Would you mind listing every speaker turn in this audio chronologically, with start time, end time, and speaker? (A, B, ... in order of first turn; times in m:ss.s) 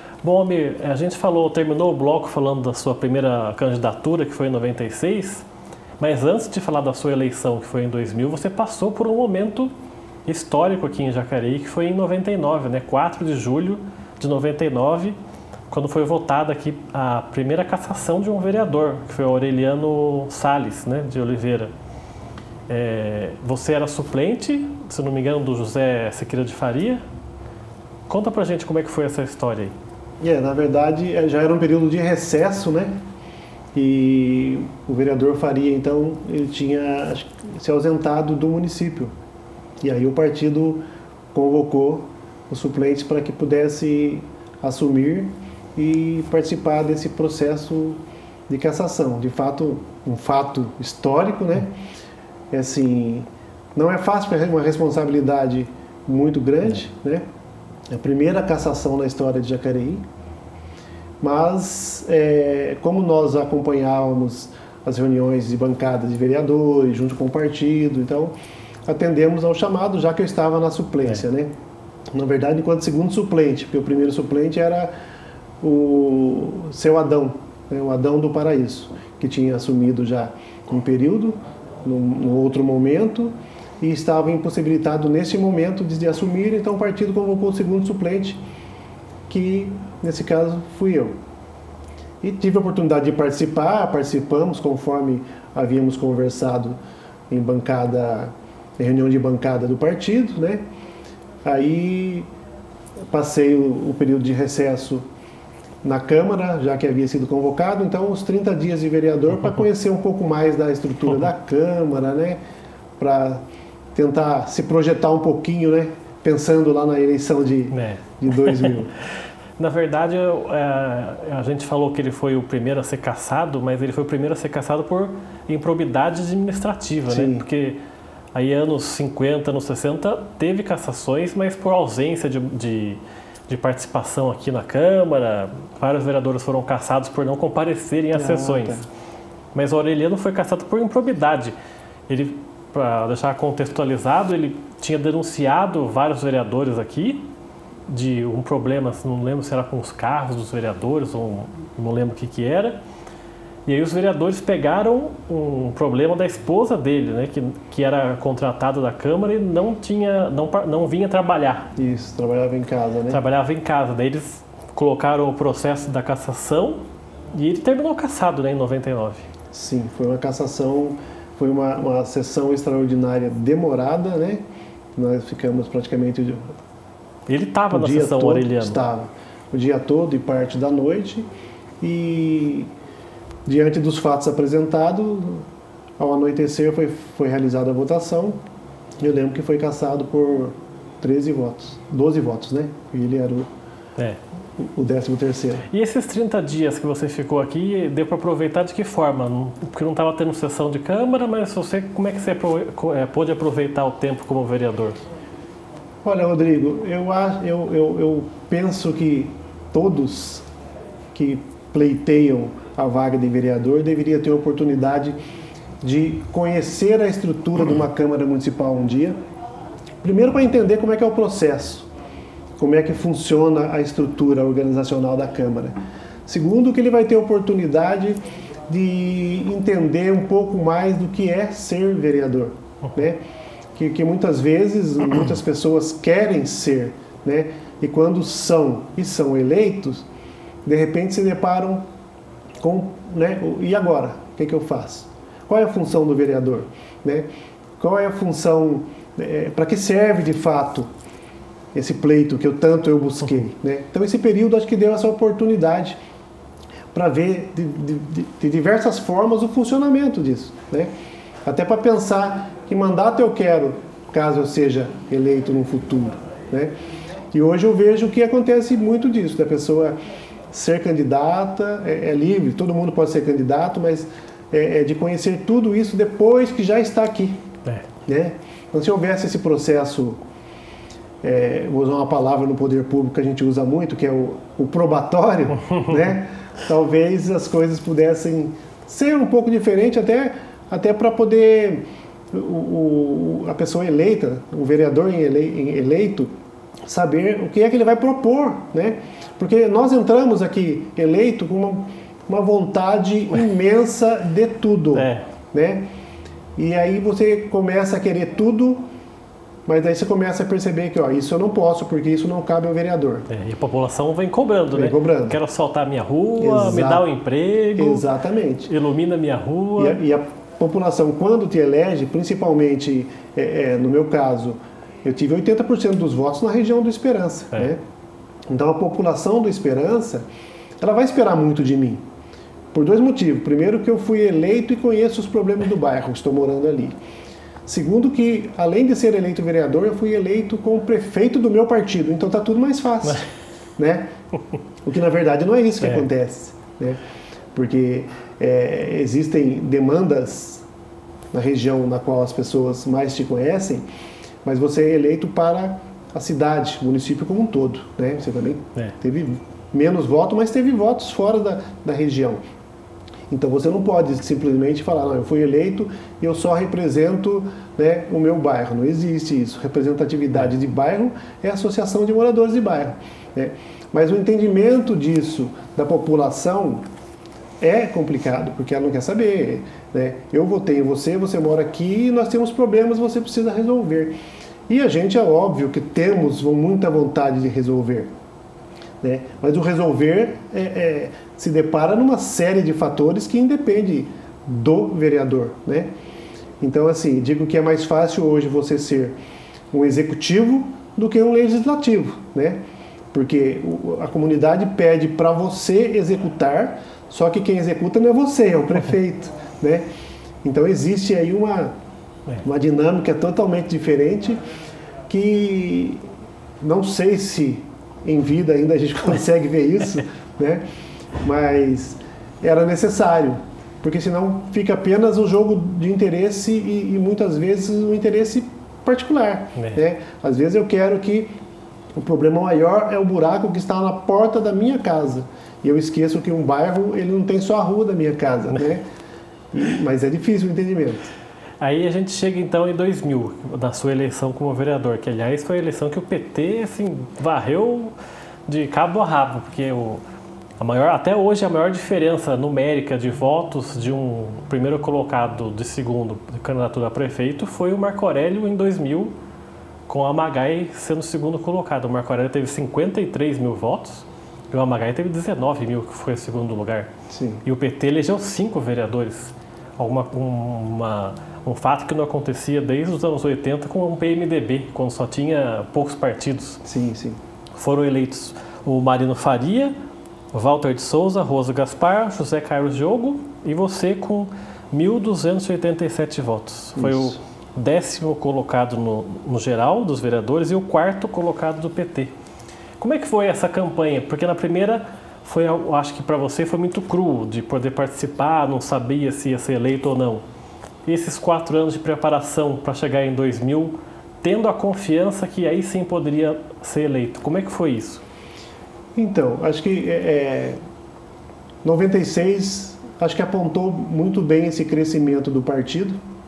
0:00.2-0:05.4 A
0:06.0-0:09.7 A
0:10.2-0:15.2 A
0:15.7-0:21.7 A
0:22.7-0:27.0 A
0:28.1-0:29.7 A
0:30.2-0:32.9 B
0:33.7-0:39.1 B
0:39.8-0:51.7 B
0:52.5-0:57.2 B
0:57.9-1:00.0 B
1:01.2-1:08.3 B
1:08.9-1:11.5 B
1:12.1-1:14.9 B
1:15.6-1:28.4 B
1:29.3-1:31.1 B
1:32.2-1:36.8 B
1:37.3-1:40.6 B
1:41.4-1:42.3 B
1:43.1-1:45.0 B
1:45.8-1:52.4 B
1:53.0-1:53.4 B
1:53.9-1:58.9 B
1:57.7-1:58.8 A
1:59.6-2:07.8 A
2:07.1-2:07.4 B
2:08.3-2:18.8 A
2:18.1-2:18.8 B
2:19.5-2:21.5 A
2:22.1-2:27.3 A
2:27.9-2:32.8 A
2:33.6-2:41.7 A
2:41.8-2:43.2 B
2:43.1-2:46.8 A
2:47.3-2:49.3 A
2:49.5-2:54.4 B
2:55.0-2:56.5 B
2:57.3-2:58.8 A
2:57.7-3:01.3 B
3:01.8-3:02.7 B
3:03.4-3:05.4 B
3:06.0-3:08.4 B
3:09.0-3:13.5 B
3:14.6-3:15.6 B
3:15.7-3:25.0 A
3:26.0-3:30.4 B
3:31.1-3:35.2 B
3:35.8-3:39.2 B
3:40.0-3:41.9 B
3:42.6-3:45.7 B
3:46.2-3:53.2 B
3:53.8-4:00.1 B
4:00.6-4:01.8 B
4:02.6-4:07.2 B
4:07.8-4:10.9 B
4:11.7-4:16.0 B
4:16.9-4:20.9 B
4:21.4-4:26.7 B
4:27.3-4:30.0 B
4:30.5-4:37.4 B
4:38.0-4:40.2 B
4:41.2-4:56.3 B
4:56.8-5:05.9 B
5:04.9-5:05.3 A
5:06.6-5:08.8 B
5:09.6-5:13.3 B
5:13.3-5:18.0 A
5:14.7-5:15.4 B
5:16.4-5:17.0 B
5:17.8-5:18.7 B
5:18.6-5:20.0 A
5:19.8-5:27.8 B
5:28.5-5:30.2 B
5:30.8-5:32.0 B
5:32.7-5:37.0 B
5:37.6-5:44.1 B
5:44.8-5:47.0 B
5:47.5-5:50.6 B
5:51.3-5:53.8 B
5:54.4-6:02.4 B
6:03.3-6:16.8 B
6:17.6-6:24.1 B
6:24.7-6:28.1 B
6:29.0-6:35.9 B
6:36.6-6:39.1 B
6:39.7-6:42.6 B
6:43.1-6:49.8 B
6:50.4-6:51.7 B
6:52.4-6:54.4 B
6:55.1-6:56.0 B
6:56.6-7:00.6 B
7:01.2-7:11.3 B
7:12.0-7:18.8 B
7:19.5-7:21.1 B
7:21.6-7:27.9 A
7:28.5-7:30.0 A
7:30.6-7:39.1 A
7:39.9-7:46.9 A
7:47.1-7:47.4 B
7:47.4-7:56.6 A
7:56.6-7:57.2 B
7:57.5-7:59.7 A
8:00.3-8:12.1 A
8:06.8-8:07.2 B
8:12.8-8:20.2 A
8:20.8-8:28.0 A
8:28.9-8:30.6 B
8:31.6-8:36.0 B